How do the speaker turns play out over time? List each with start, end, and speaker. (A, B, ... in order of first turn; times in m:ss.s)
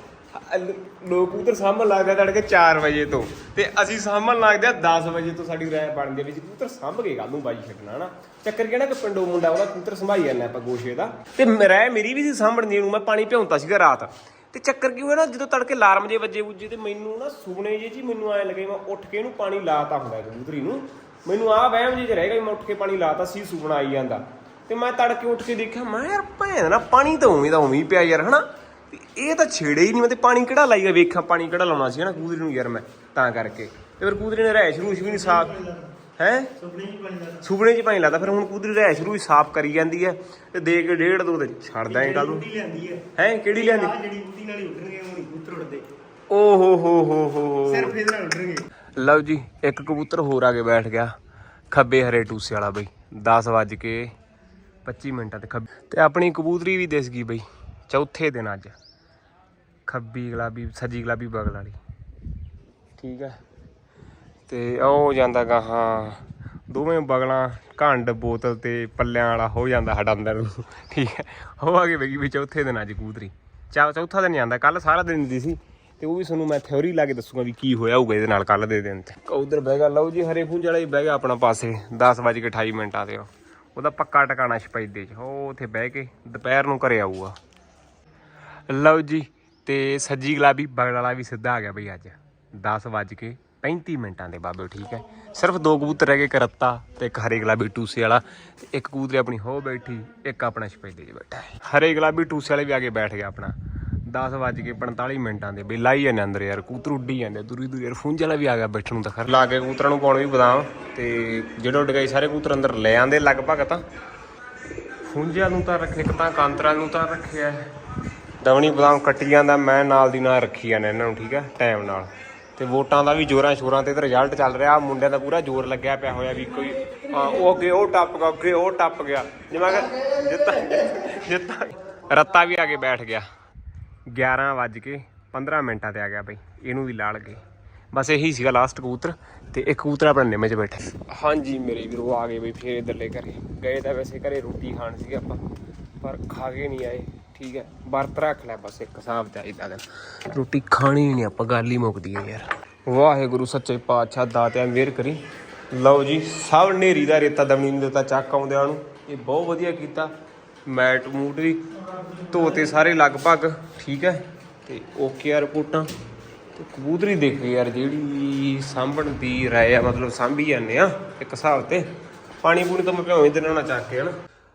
0:00.3-0:35.6 A
0:34.9-0:35.9 B
0:36.2-0:36.5 A
0:36.6-0:37.4 B
0:37.4-0:42.5 A
0:41.9-0:45.9 B
0:43.2-0:44.0 A
0:46.3-0:48.0 A
0:47.7-0:48.7 B
0:49.0-0:51.1 A
0:51.7-0:54.1 A
0:54.8-0:58.8 A
0:59.9-1:01.8 A
1:03.0-1:03.4 A
1:04.5-1:27.4 A
1:28.7-1:43.6 A
1:44.1-1:53.8 A
1:55.1-1:57.7 A
1:58.4-2:13.3 A
2:14.1-2:17.4 A
2:17.9-2:25.4 A
2:26.0-2:40.1 A
2:40.7-2:45.9 A
2:46.6-2:51.9 A
2:52.4-2:54.1 A